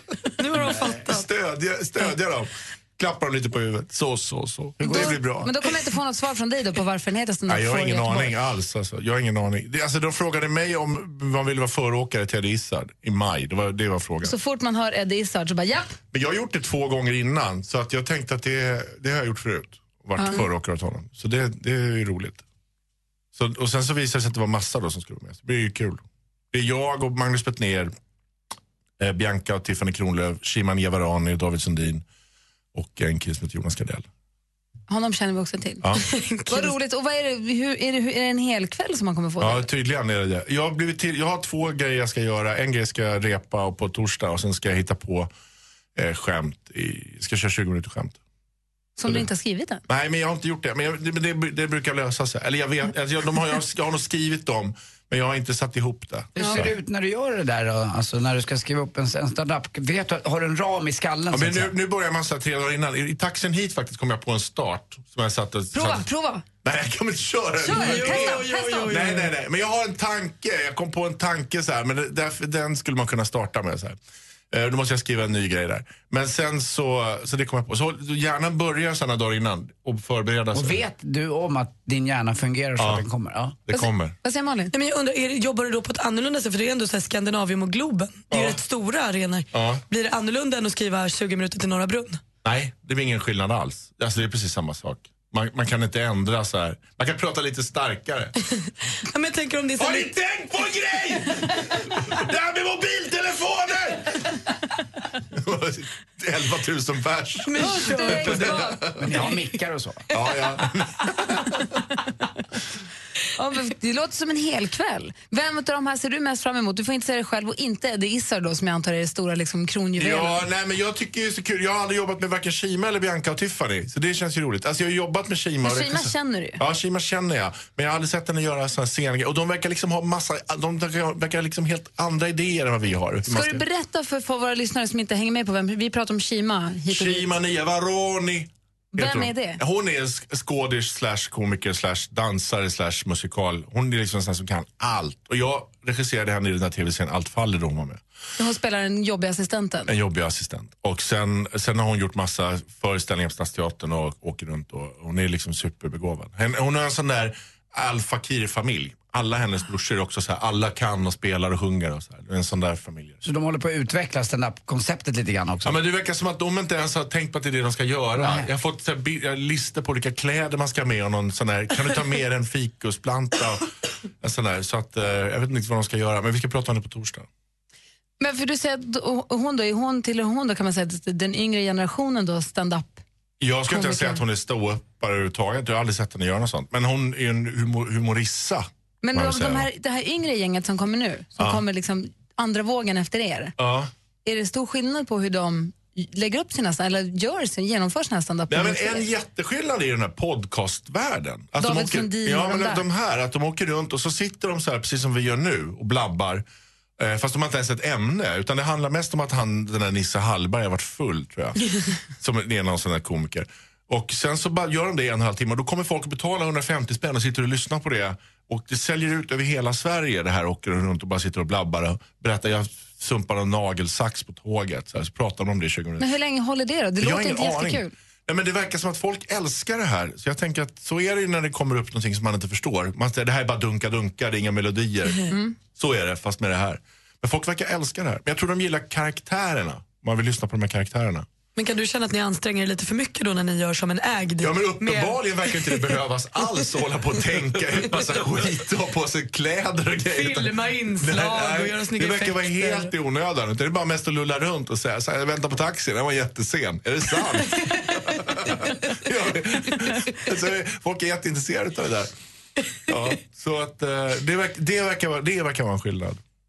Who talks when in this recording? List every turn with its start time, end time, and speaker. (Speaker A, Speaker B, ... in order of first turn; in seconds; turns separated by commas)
Speaker A: 0.4-1.3, Speaker B: 1.0-5.5, Speaker C: 4.8-5.4, Speaker D: 4.8-8.3, Speaker B: 7.5-14.3, Speaker D: 14.2-16.0, Speaker B: 16.1-22.4, Speaker D: 20.2-20.5, Speaker B: 23.4-27.9, Speaker B: 29.0-32.0, Speaker B: 32.7-34.1, Speaker D: 34.9-35.8, Speaker A: 36.0-36.7, Speaker D: 36.5-39.7, Speaker B: 39.4-45.3, Speaker B: 46.0-48.2, Speaker D: 49.0-49.8, Speaker B: 49.9-56.7, Speaker C: 56.4-61.7, Speaker D: 56.4-56.6, Speaker B: 61.3-66.1, Speaker D: 65.7-66.5, Speaker B: 66.6-74.0, Speaker D: 67.6-69.0, Speaker A: 67.7-69.3, Speaker B: 74.5-80.8, Speaker C: 80.5-83.6, Speaker B: 82.8-83.0, Speaker B: 83.7-84.1, Speaker D: 83.7-84.7, Speaker A: 84.7-92.2, Speaker B: 88.3-88.6, Speaker B: 89.5-89.8, Speaker B: 92.5-98.3, Speaker A: 99.1-100.1, Speaker B: 99.8-104.2, Speaker B: 105.3-109.3, Speaker A: 107.5-108.6, Speaker D: 107.6-108.8, Speaker C: 109.0-110.0, Speaker B: 110.1-111.8, Speaker D: 113.4-120.4, Speaker B: 120.0-133.6, Speaker D: 125.6-126.6, Speaker D: 133.3-137.3, Speaker B: 136.9-148.0, Speaker D: 138.9-139.6, Speaker D: 148.4-149.9, Speaker B: 149.9-163.2, Speaker C: 163.2-165.8, Speaker B: 165.6-173.7, Speaker C: 168.2-168.5, Speaker B: 174.2-177.3, Speaker D: 178.2-183.0, Speaker B: 183.4-189.7, Speaker D: 183.7-184.2, Speaker D: 189.0-193.6, Speaker B: 193.6-193.9, Speaker D: 194.2-199.1, Speaker B: 198.5-206.4, Speaker D: 201.6-202.8, Speaker B: 207.0-226.1, Speaker D: 226.0-227.9, Speaker B: 227.0-241.3, Speaker D: 235.3-235.6, Speaker A: 241.6-246.0, Speaker B: 244.4-262.1, Speaker A: 250.1-252.9, Speaker B: 262.9-266.2